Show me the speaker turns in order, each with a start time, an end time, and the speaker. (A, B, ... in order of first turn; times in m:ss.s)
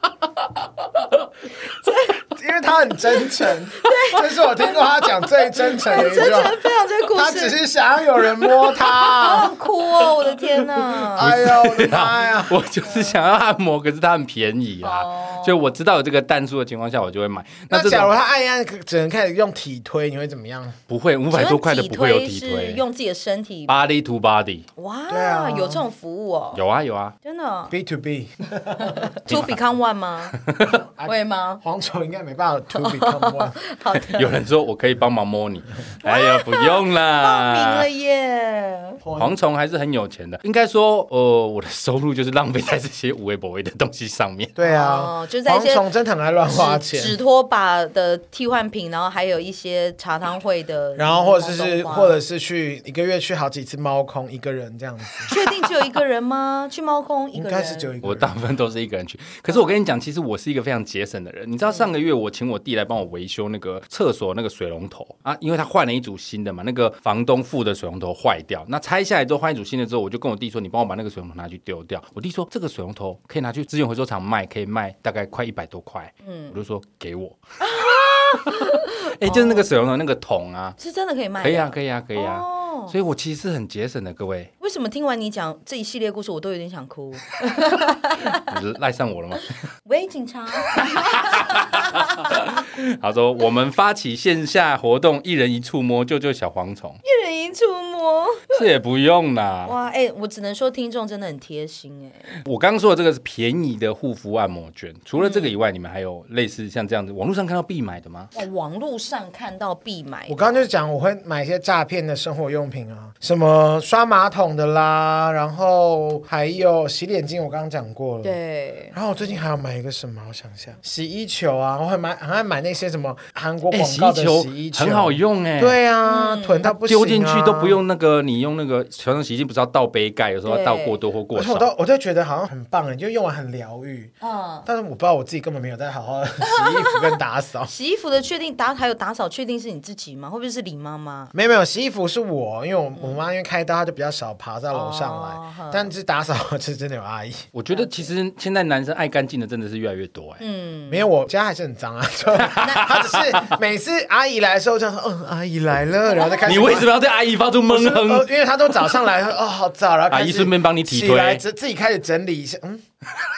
0:01.7-0:02.2 A
0:02.3-0:09.6 B
0:03.8-0:07.5 A
0:08.5-0:11.3 A
0:10.8-0:18.1 C
0:11.1-0:12.6 B
0:12.8-0:13.1 A
0:14.8-0:15.7 A
0:17.7-0:20.8 B
0:20.9-0:22.8 C
0:21.3-0:23.7 A
0:23.7-0:24.6 C
0:24.8-0:26.6 A
0:25.1-0:25.8 B
0:26.5-0:27.1 C
0:27.2-0:27.7 A
0:27.7-0:29.2 B
0:28.9-0:30.4 A
0:29.2-0:29.6 C
0:30.4-0:30.8 C
0:30.7-0:33.6 B
0:31.0-0:31.6 A
0:32.7-0:34.3 A
0:33.9-0:37.8 C
0:36.0-0:39.0 A
0:39.0-0:39.4 B
0:39.2-0:44.5 C
0:44.6-0:47.2 B
0:44.6-0:45.8 A
0:46.5-0:52.2 A
0:51.0-0:55.3 B
0:55.3-0:57.9 A
0:57.3-0:58.3 B
0:58.0-1:17.4 C
0:59.5-0:59.7 A
1:16.2-1:16.5 A
1:17.6-1:19.7 A
1:18.3-1:20.8 C
1:20.8-1:22.9 A
1:21.4-1:24.5 C
1:24.6-1:28.5 A
1:28.3-1:29.4 C
1:29.8-1:32.4 A
1:30.7-1:37.0 C
1:37.0-1:38.6 A
1:38.5-1:39.7 C
1:39.6-1:42.3 A
1:42.4-1:48.3 C
1:45.2-1:45.5 A
1:48.3-1:50.6 A
1:50.3-1:58.4 B
1:58.2-1:58.9 A
1:58.9-2:07.8 B
2:03.7-2:05.8 C
2:06.0-2:06.7 A
2:06.8-2:11.7 C
2:10.4-2:11.0 A
2:11.3-2:14.1 B
2:14.2-2:14.7 A
2:14.6-2:17.7 B
2:16.4-2:21.3 A
2:21.3-2:27.5 B
2:24.7-2:25.9 A
2:27.5-2:30.4 C
2:27.7-2:28.1 A
2:30.4-2:31.1 A
2:30.9-2:36.9 B
2:32.4-2:33.6 C
2:32.6-2:32.9 A
2:36.2-2:36.8 A
2:36.4-2:38.3 C
2:37.7-2:42.8 B
2:40.1-2:41.4 C